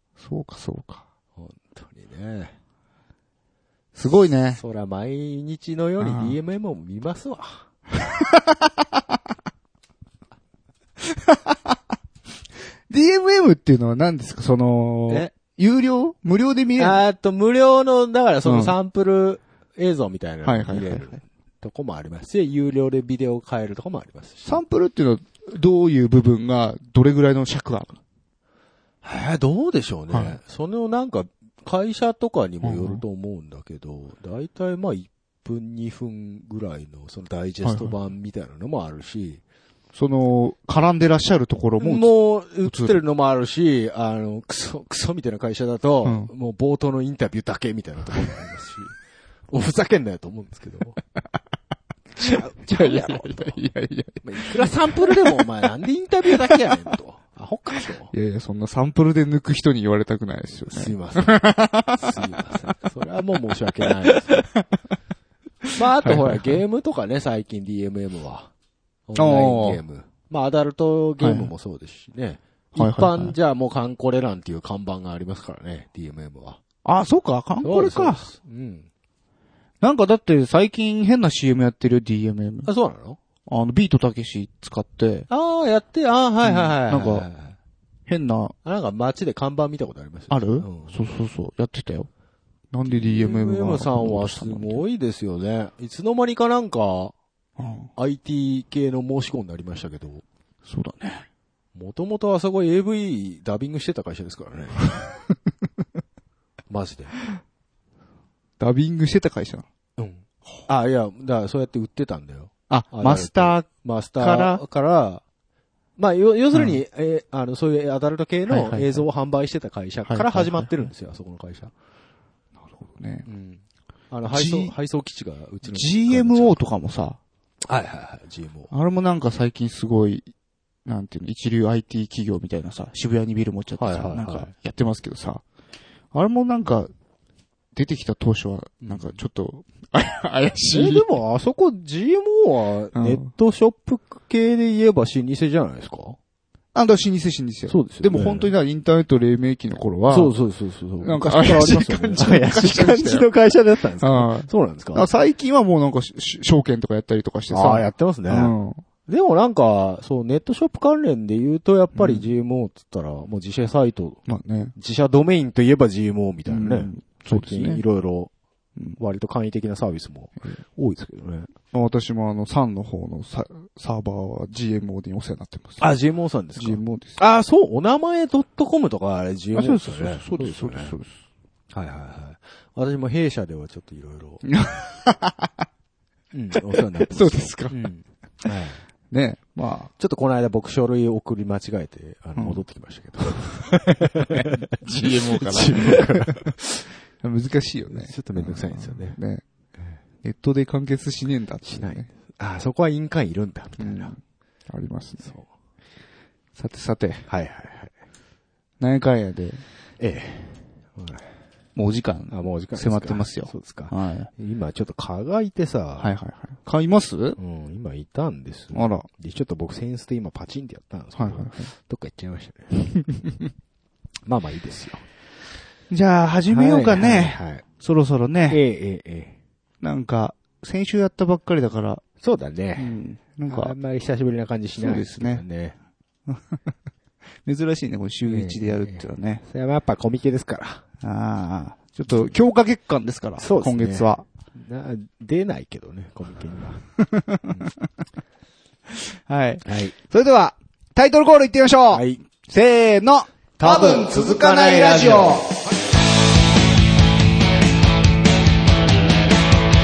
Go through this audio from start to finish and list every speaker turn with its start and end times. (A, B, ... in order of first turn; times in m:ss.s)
0:00.2-0:01.0 A
0:01.4-0:02.6 B
0:04.0-0:04.6 A
0:04.6-0:07.7 B
0:06.0-0:06.4 A
0:08.0-0:08.7 A
0:11.1-0:11.8 A
0:12.9-0:17.0 A
0:15.1-0:15.3 B
0:16.8-0:24.6 B
0:18.4-0:18.8 A
0:20.4-0:21.2 A
0:24.4-0:28.0 A
0:29.0-0:39.4 B
0:30.1-0:30.4 A
0:32.6-0:33.0 A
0:37.6-0:37.9 A
0:39.9-0:43.0 A
0:41.8-0:48.9 B
0:46.0-0:46.3 A
0:49.5-0:51.0 B
0:52.2-0:53.6 B
0:52.3-0:55.4 A
0:54.2-0:58.1 B
0:58.1-1:02.3 A
1:00.7-1:04.5 B
1:05.7-1:08.5 B
1:06.0-1:06.6 A
1:09.1-1:16.6 B
1:09.2-1:09.8 A
1:11.2-1:11.5 A
1:12.7-1:13.4 A
1:16.8-1:18.3 A
1:17.6-1:18.9 B
1:19.8-1:22.7 A
1:22.6-1:23.2 B
1:23.5-1:25.3 A
1:25.3-1:27.6 B
1:26.4-1:27.3 A
1:28.1-1:28.5 A
1:28.6-1:31.0 B
1:30.3-1:32.1 A
1:32.7-1:34.8 A
1:32.9-1:37.1 B
1:37.6-1:37.9 A
1:38.0-1:40.2 B
1:40.7-1:41.2 A
1:41.8-1:45.0 B
1:46.7-1:47.2 B
1:48.6-1:49.7 A
1:50.0-1:55.2 B
1:52.7-1:54.6 A
1:56.0-2:01.7 B
1:56.5-1:56.8 A
1:58.5-1:59.1 A
2:00.1-2:00.8 A
2:02.7-2:03.3 A
2:03.3-2:06.6 B
2:04.3-2:04.7 A
2:05.6-2:07.2 A
2:07.7-2:08.7 B
2:08.7-2:10.3 A
2:10.8-2:15.4 A
2:13.8-2:14.5 B
2:16.1-2:16.9 A
2:17.8-2:21.1 A
2:18.8-2:19.1 B
2:20.7-2:26.2 B
2:23.0-2:23.3 A
2:26.7-2:30.3 A
2:27.7-2:28.5 B
2:30.1-2:35.1 B
2:31.0-2:33.3 A
2:34.0-2:38.8 A
2:37.5-2:38.5 B
2:39.1-2:44.2 B
2:42.0-2:42.3 A
2:44.3-2:44.8 A
2:44.8-2:48.3 B
2:46.5-2:47.8 A
2:49.0-2:51.5 B
2:51.7-2:55.9 A
2:55.8-3:00.9 B
2:56.6-2:57.2 A
2:59.6-3:01.2 A
3:01.7-3:04.4 B
3:04.4-3:05.7 A
3:06.3-3:08.8 B
3:07.0-3:07.8 A
3:09.1-3:09.9 A
3:10.0-3:16.9 B
3:12.4-3:12.6 A
3:13.6-3:16.5 A
3:17.2-3:19.4 A
3:17.9-3:19.2 B
3:20.2-3:22.1 A
3:21.6-3:24.2 B
3:23.8-3:25.3 A
3:25.2-3:25.5 B
3:26.6-3:27.3 A
3:27.3-3:27.9 B
3:28.8-3:29.6 A
3:30.0-3:31.3 B
3:31.8-3:34.3 A
3:32.3-3:36.2 B
3:36.0-3:37.4 A
3:37.4-3:43.0 B
3:38.7-3:39.1 A
3:41.2-3:41.7 A
3:44.3-3:45.1 B
3:45.9-3:48.6 A
3:46.5-3:47.6 B
3:48.5-3:49.4 B
3:49.8-3:52.0 A
3:52.2-3:55.8 B
3:52.8-3:53.8 A
3:54.8-3:55.4 A
3:56.3-3:56.7 A
3:57.4-3:59.4 A
3:58.2-4:00.8 B
4:01.0-4:04.2 A
4:03.4-4:06.8 B
4:07.0-4:07.5 A
4:07.5-4:07.7 B
4:09.1-4:15.5 A
4:09.6-4:10.0 B
4:11.9-4:12.2 B
4:13.6-4:15.4 B